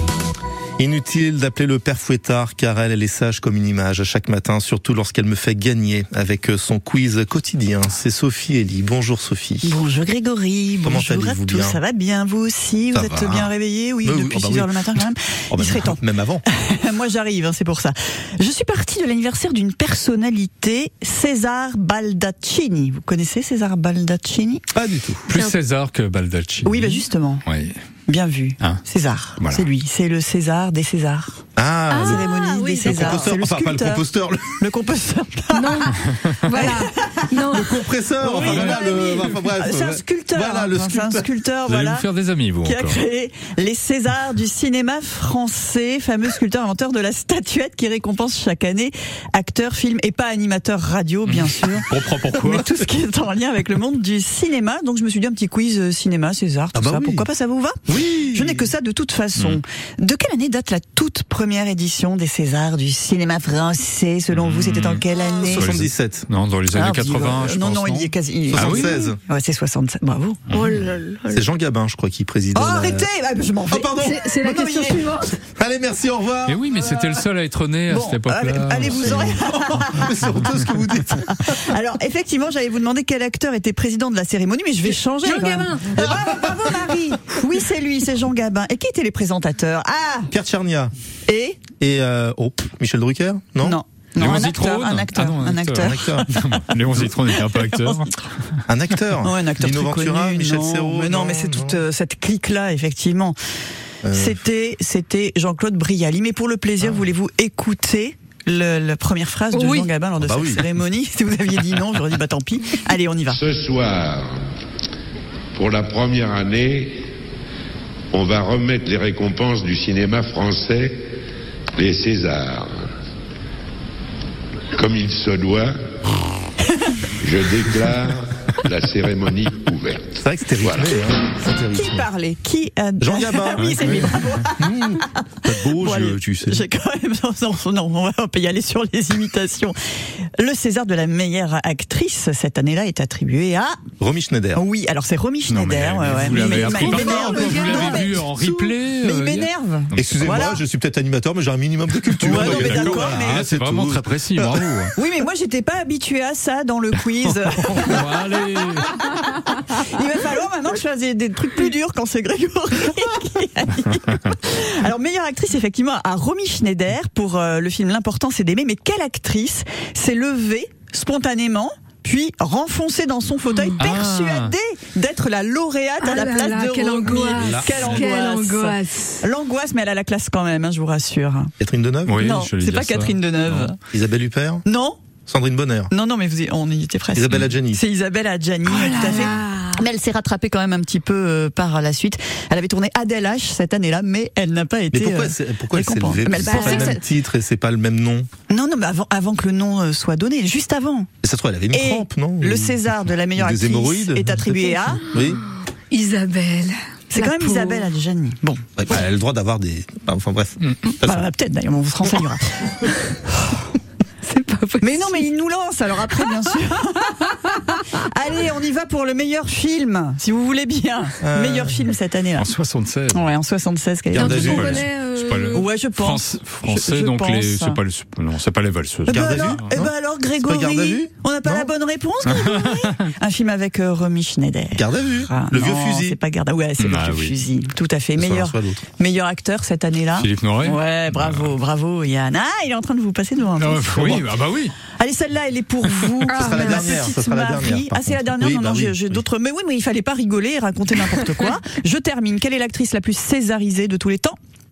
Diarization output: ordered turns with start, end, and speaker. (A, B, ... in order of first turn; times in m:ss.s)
0:00.8-0:09.8 A
0:09.6-0:24.6 B
0:10.8-0:11.8 A
0:12.9-0:13.5 A
0:14.0-0:14.9 A
0:15.5-0:16.4 A
0:24.7-0:25.3 A
0:25.3-0:27.7 C
0:25.3-0:25.5 D
0:26.6-0:27.4 B
0:28.1-0:31.4 B
0:29.4-0:29.7 C
0:31.6-0:34.6 A
0:31.9-0:33.2 D
0:32.0-0:34.0 B
0:34.6-0:37.6 B
0:35.5-0:37.8 D
0:36.0-0:36.4 C
0:37.4-0:41.3 A
0:38.2-0:42.1 B
0:38.4-0:39.3 C
0:41.6-0:43.0 C
0:42.6-0:57.8 B
0:51.2-0:52.8 C
0:56.7-0:57.3 A
0:57.9-0:58.7 A
0:58.3-1:05.7 B
1:04.3-1:08.9 C
1:05.1-1:06.3 A
1:06.7-1:10.4 B
1:08.5-1:09.2 A
1:10.5-1:10.8 C
1:10.5-1:11.4 D
1:11.3-1:13.1 A
1:12.5-1:15.2 B
1:13.7-1:14.2 A
1:13.9-1:15.4 D
1:15.4-1:16.7 A
1:16.4-1:19.4 C
1:17.9-1:30.3 B
1:18.8-1:21.6 A
1:25.2-1:26.0 D
1:30.3-1:30.9 A
1:31.3-1:31.6 B
1:31.8-1:33.8 A
1:33.6-1:38.0 B
1:34.2-1:38.5 C
1:35.8-1:36.3 A
1:38.7-1:41.8 A
1:39.2-1:43.4 B
1:44.0-1:44.4 A
1:44.1-1:53.4 B
1:49.5-1:49.9 D
1:50.2-1:50.6 A
1:53.3-1:54.4 E
1:55.5-1:57.0 E
1:58.1-2:01.0 E
2:01.8-2:02.8 E
2:04.7-2:05.7 E
2:06.7-2:07.1 B
2:07.2-2:11.0 E
2:10.2-2:12.1 A
2:11.7-2:19.7 B
2:13.0-2:16.6 A
2:13.6-2:14.4 C
2:20.4-2:23.8 B
2:24.0-2:24.6 A
2:24.5-2:30.6 B
2:25.5-2:30.4 C
2:26.2-2:28.2 D
2:30.0-2:34.6 A
2:32.2-2:34.9 C
2:32.2-2:33.4 B
2:34.9-3:01.5 B
2:37.6-2:39.4 C
2:53.8-2:54.5 C
2:56.0-2:59.2 D
2:57.1-2:58.0 A
3:01.6-3:02.4 A
3:02.0-3:03.7 C
3:02.2-3:03.8 B
3:03.9-3:04.6 A
3:04.6-3:05.0 B
3:05.3-3:05.9 A
3:05.9-3:17.0 B
3:07.1-3:07.8 A
3:08.7-3:09.8 D
3:14.9-3:18.3 A
3:16.3-3:17.0 D
3:18.5-3:21.1 B
3:21.2-3:25.4 A
3:21.7-3:25.1 B
3:25.9-3:27.9 D
3:27.1-3:28.7 B
3:28.8-3:31.3 A
3:30.9-3:32.9 B
3:34.2-3:35.3 D
3:34.8-3:42.5 B
3:41.2-3:41.9 A
3:42.4-3:43.2 C
3:43.1-3:44.8 B
3:44.1-3:44.9 A
3:44.1-3:45.7 D
3:44.4-3:49.8 C
3:45.5-3:47.8 B
3:49.0-4:04.3 B
3:49.1-3:51.7 A
3:52.3-3:53.0 C
3:54.7-3:56.2 A
3:56.8-3:57.3 C
3:58.2-3:58.8 A
4:00.2-4:01.5 C
4:03.6-4:04.8 C
4:04.8-4:14.4 B
4:06.3-4:06.9 D
4:06.3-4:09.1 A